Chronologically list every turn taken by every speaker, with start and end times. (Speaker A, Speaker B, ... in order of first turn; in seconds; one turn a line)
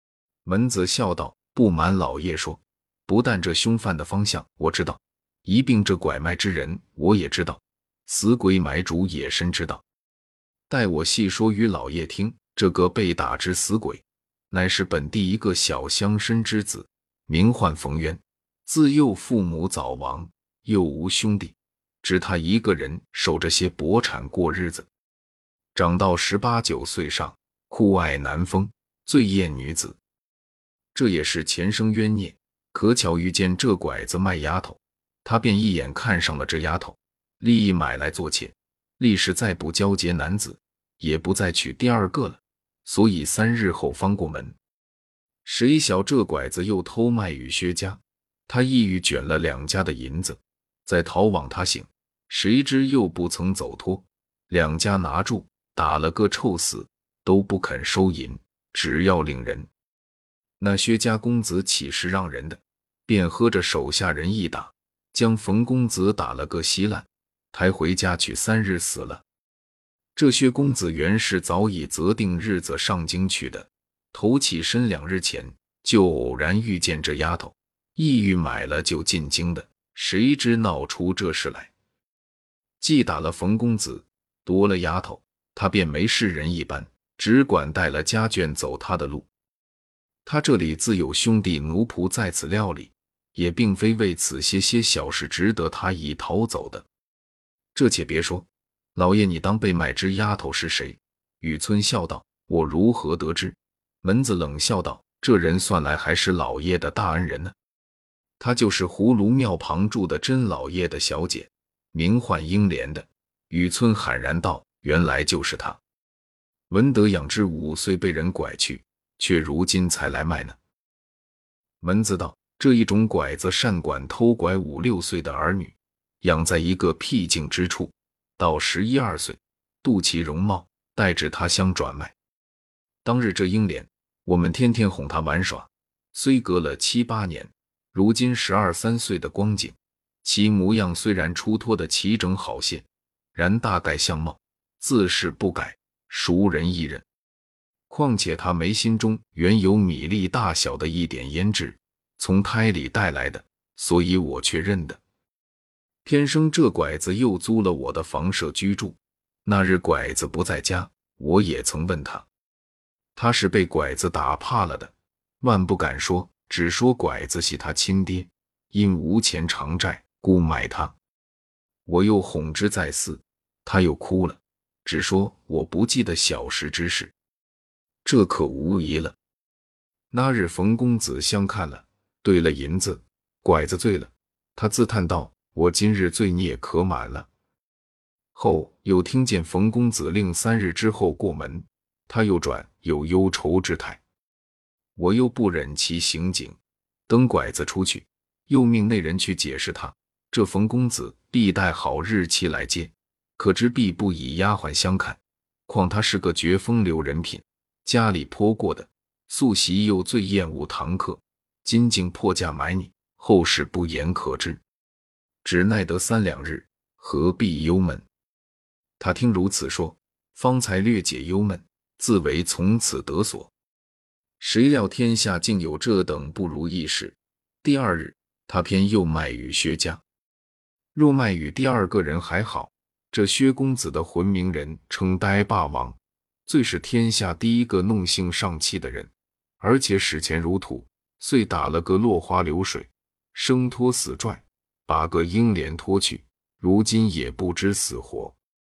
Speaker A: 0.4-9.8
Speaker A: 10.7-24.9
Speaker A: 25.7-30.0
Speaker A: 30.9-44.6
Speaker A: 45.4-59.7
Speaker A: 60.6-69.2
Speaker A: 70.1-81.7
Speaker A: 82.8-89.3
Speaker A: 90.2-96.8
Speaker A: 97.7-107.5
Speaker A: 108.4-115.8
Speaker A: 116.7-120.6
Speaker A: 121.8-132.1
Speaker A: 133.0-147.0
Speaker A: 147.9-155.0
Speaker A: 156.0-162.3
Speaker A: 163.2-170.9
Speaker A: 171.8-177.1
Speaker A: 178.0-179.2
Speaker A: 180.1-187.3
Speaker A: 188.3-194.0
Speaker A: 194.9-214.6
Speaker A: 215.4-218.0
Speaker A: 219.0-223.5
Speaker A: 224.4-230.0
Speaker A: 230.9-248.4